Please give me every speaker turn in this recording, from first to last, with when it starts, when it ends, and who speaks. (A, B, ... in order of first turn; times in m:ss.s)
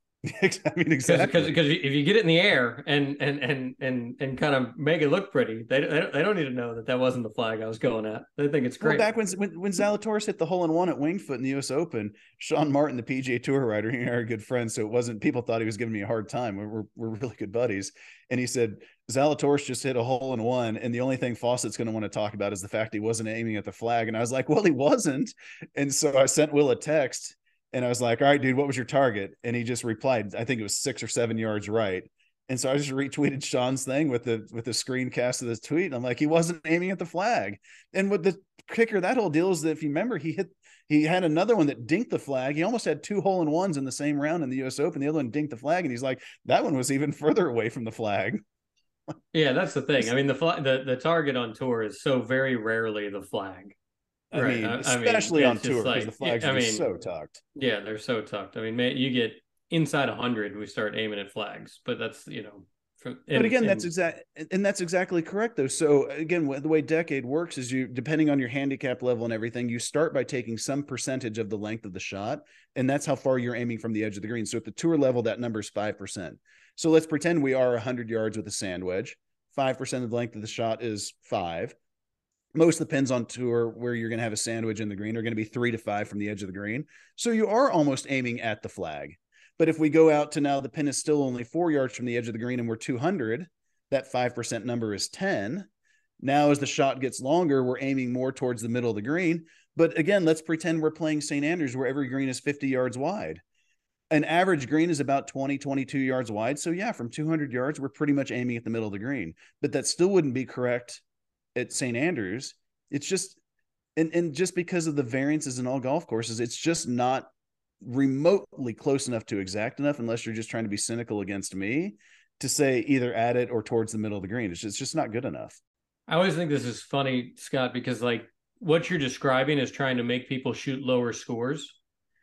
0:00.2-0:01.5 A
0:01.0-0:09.1 B
0:08.8-0:48.4 A
0:49.3-0:53.8 B
0:54.3-0:57.4 A
0:54.3-0:56.9 B
0:57.6-1:03.9 B
1:03.3-1:21.8 A
1:22.6-1:35.7 A
1:36.2-1:43.4 A
1:44.1-1:51.0 A
1:51.6-1:53.4 A
1:54.0-2:05.6 A
2:06.1-2:11.8 B